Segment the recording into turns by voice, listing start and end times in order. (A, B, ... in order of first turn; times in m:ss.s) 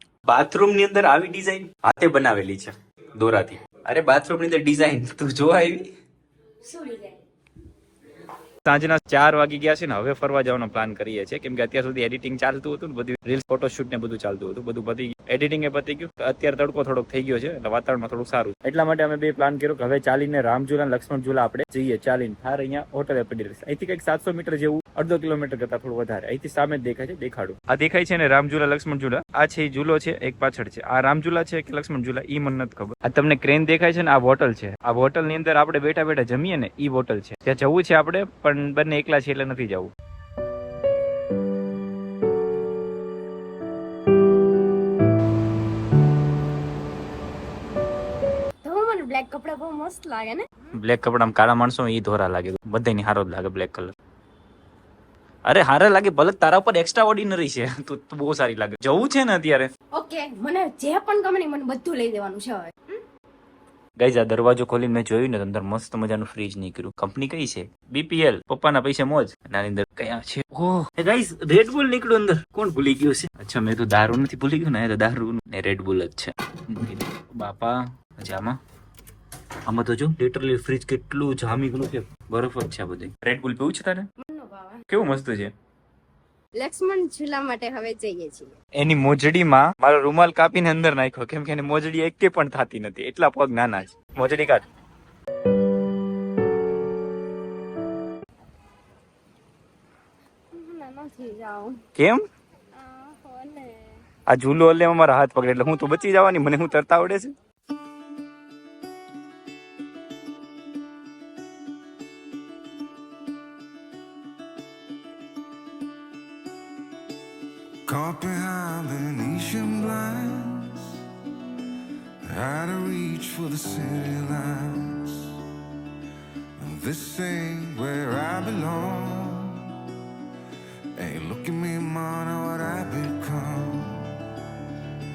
0:00.2-0:05.9 A
0:06.6-0:07.2 B
0:08.6-0:39.9 A
0:48.6-0:50.7 B
0:50.7-0:53.9 A
0:55.4-0:59.7 A
0:59.9-1:03.0 B
1:04.0-1:18.6 A
1:19.6-1:24.1 A
1:24.2-1:24.8 B
1:24.9-1:25.5 A
1:26.6-1:28.5 B
1:28.7-1:34.6 A
1:40.5-1:41.8 B
1:42.0-1:42.2 A
1:42.7-1:44.0 B
1:44.3-1:47.3 A
1:57.8-2:01.0 C
2:02.2-2:05.3 C
2:06.6-2:09.7 C
2:11.0-2:14.2 C